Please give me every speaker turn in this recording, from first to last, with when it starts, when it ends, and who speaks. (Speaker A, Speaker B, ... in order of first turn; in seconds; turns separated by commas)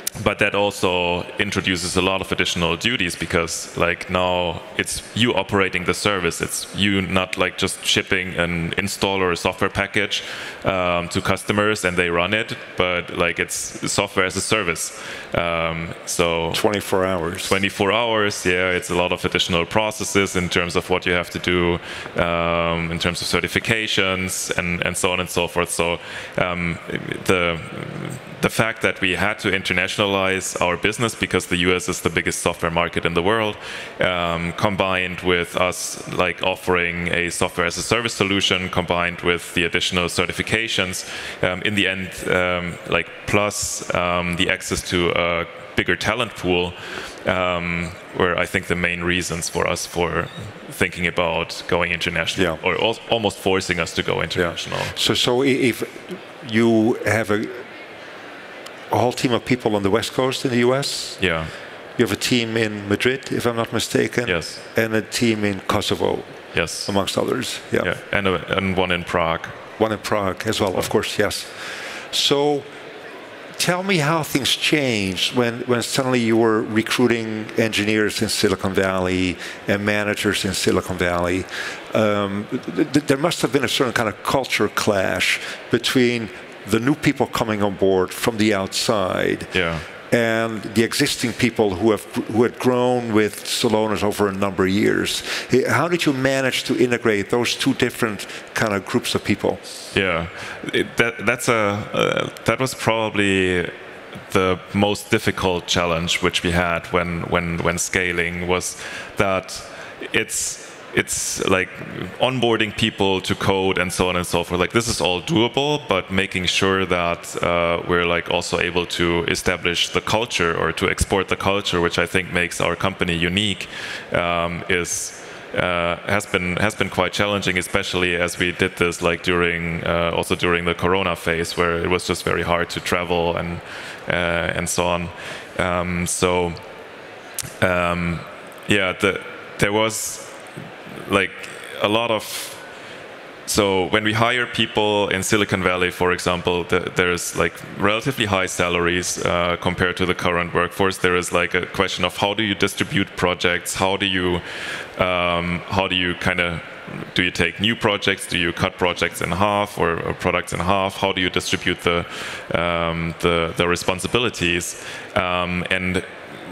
Speaker A: 0.2-16.6, Speaker B: 16.5-17.6, Speaker A: 17.4-55.0, Speaker B: 54.4-57.6, Speaker B: 58.9-61.2, Speaker A: 61.2-61.5, Speaker B: 62.0-67.9, Speaker A: 64.2-64.6, Speaker A: 66.5-66.9, Speaker A: 67.8-69.6, Speaker B: 69.8-72.7, Speaker B: 73.6-89.5, Speaker A: 89.5-89.8, Speaker B: 90.1-99.6, Speaker A: 99.9-103.7, Speaker A: 104.3-136.6, Speaker A: 137.6-140.3, Speaker A: 140.9-142.6, Speaker A: 143.5-154.4, Speaker A: 155.0-166.1